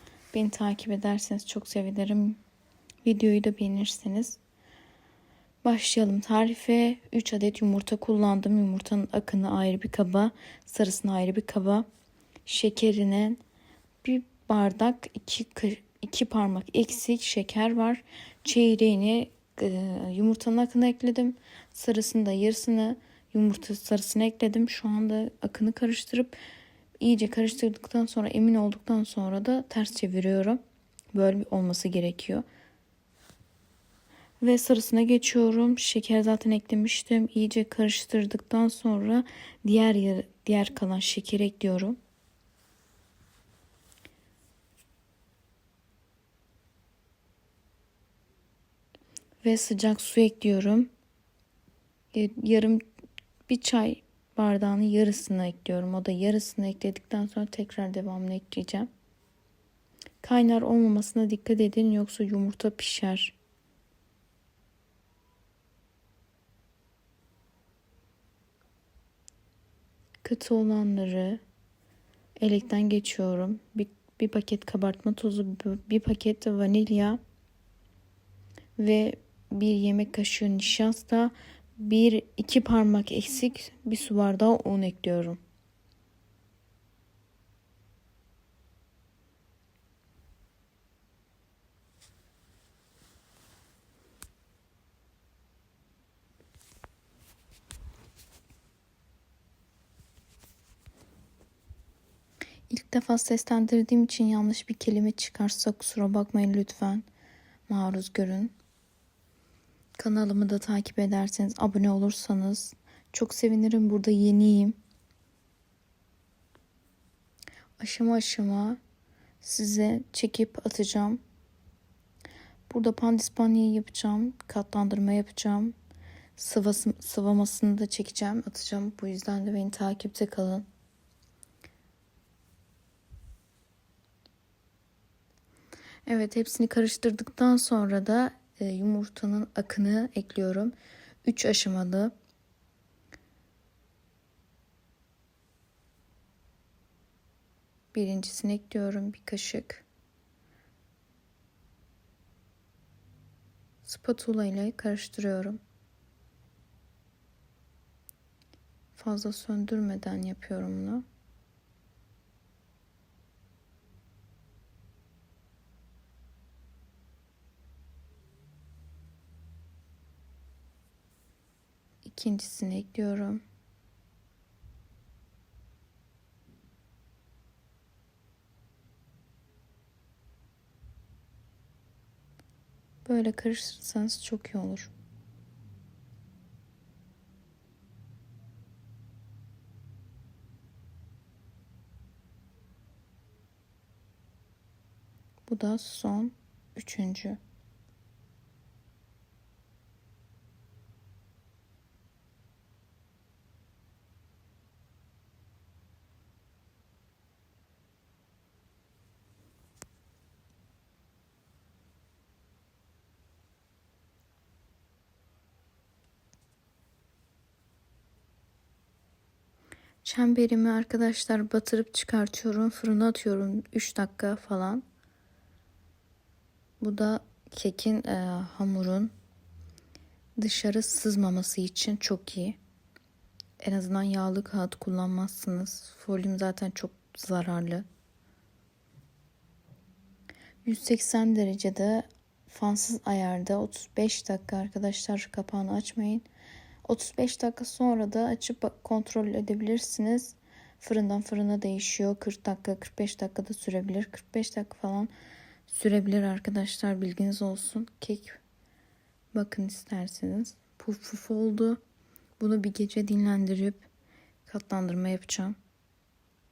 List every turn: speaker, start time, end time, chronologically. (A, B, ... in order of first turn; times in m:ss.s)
0:00.3-0:02.4 A
0:03.0-0:04.4 A
0:05.6-0:11.9 A
0:12.5-0:13.4 A
0:14.0-0:26.4 A
0:27.0-0:30.6 A
0:31.1-0:32.4 A
0:34.4-0:42.0 A
0:49.4-0:50.9 A
0:52.1-0:52.8 A
0:53.5-0:58.9 A
1:00.2-1:03.4 A
1:10.2-1:11.4 A
1:12.4-1:17.2 A
1:18.8-1:25.4 A
1:42.7-1:47.1 A
1:47.7-1:48.5 A
1:50.0-1:54.8 A
1:57.8-1:58.8 A
1:59.4-2:01.2 A
2:02.7-2:05.8 A
2:06.4-2:10.7 A
2:16.1-2:22.1 A
2:27.9-2:29.8 A
2:33.8-2:35.6 A
2:38.9-2:41.0 A
2:52.0-2:53.4 A
3:03.0-3:04.9 A
3:15.5-3:17.4 A
3:40.0-3:44.8 A
3:46.8-3:49.1 A
3:50.4-3:52.6 A
3:53.6-3:57.8 A
4:00.6-4:06.2 A
4:06.8-4:15.1 A
4:15.7-4:18.4 A
4:19.3-4:21.8 A
4:22.4-4:23.9 A
4:24.5-4:25.6 A